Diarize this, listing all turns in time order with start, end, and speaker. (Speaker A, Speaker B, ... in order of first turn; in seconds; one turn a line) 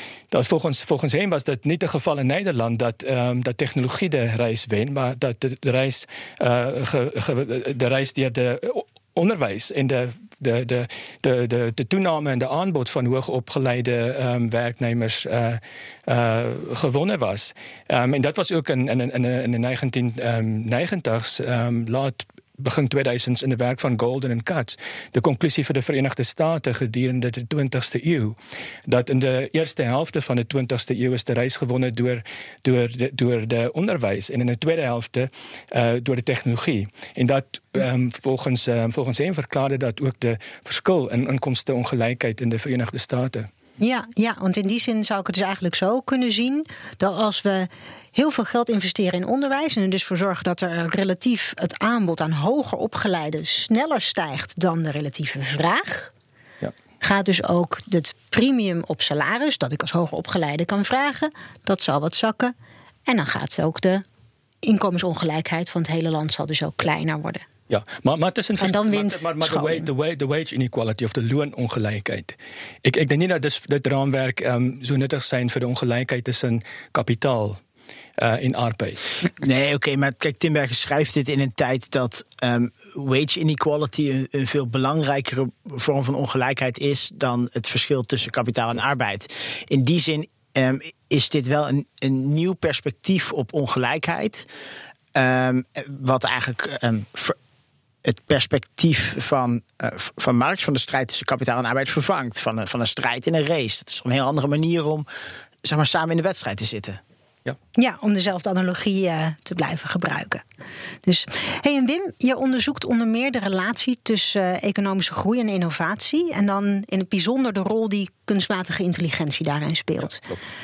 Speaker A: 0.3-28.4
Speaker A: 28.9-43.5
Speaker B: 43.8-56.1
Speaker B: 57.0-62.5
Speaker B: 63.0-64.0
Speaker B: 64.6-67.5
Speaker A: 67.7-77.6
Speaker B: 68.6-69.9
Speaker A: 78.2-79.1
Speaker C: 79.3-94.5
Speaker C: 95.1-97.3
Speaker C: 98.0-105.0
Speaker C: 105.6-107.0
Speaker B: 107.8-110.4
Speaker B: 111.0-120.2